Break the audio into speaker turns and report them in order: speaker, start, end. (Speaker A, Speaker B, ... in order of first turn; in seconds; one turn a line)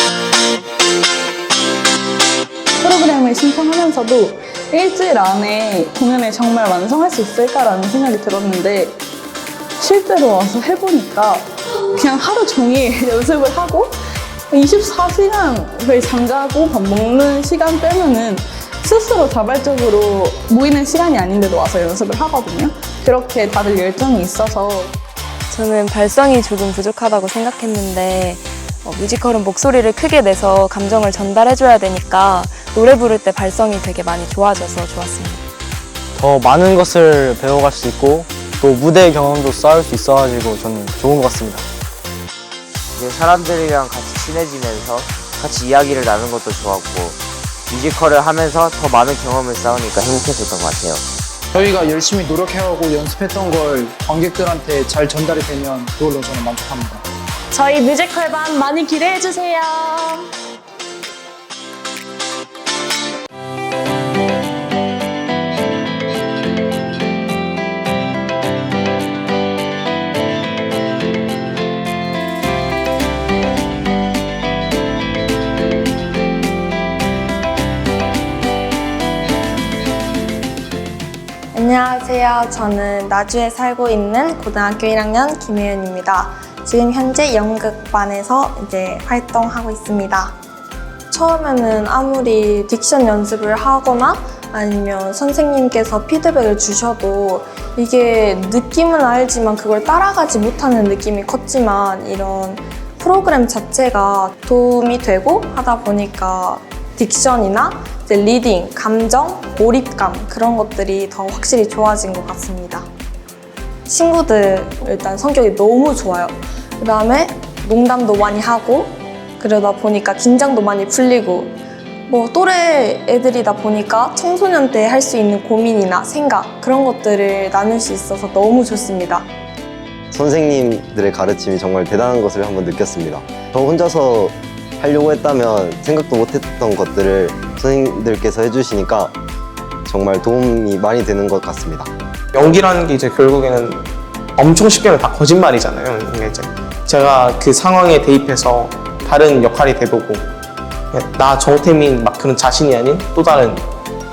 Speaker A: 2.8-9.0
Speaker A: 9.8-14.0
Speaker A: 14.5-24.9
Speaker B: 25.5-35.4
Speaker C: 36.1-41.6
Speaker D: 43.0-51.0
Speaker E: 51.5-57.0
Speaker F: 57.5-60.3
Speaker G: 81.5-90.3
Speaker G: 91.1-112.9
Speaker G: 113.9-121.5
Speaker G: 122.1-129.3
Speaker H: 130.1-139.1
Speaker H: 139.8-141.9
Speaker I: 142.3-143.8
Speaker I: 144.4-150.2
Speaker I: 150.9-153.6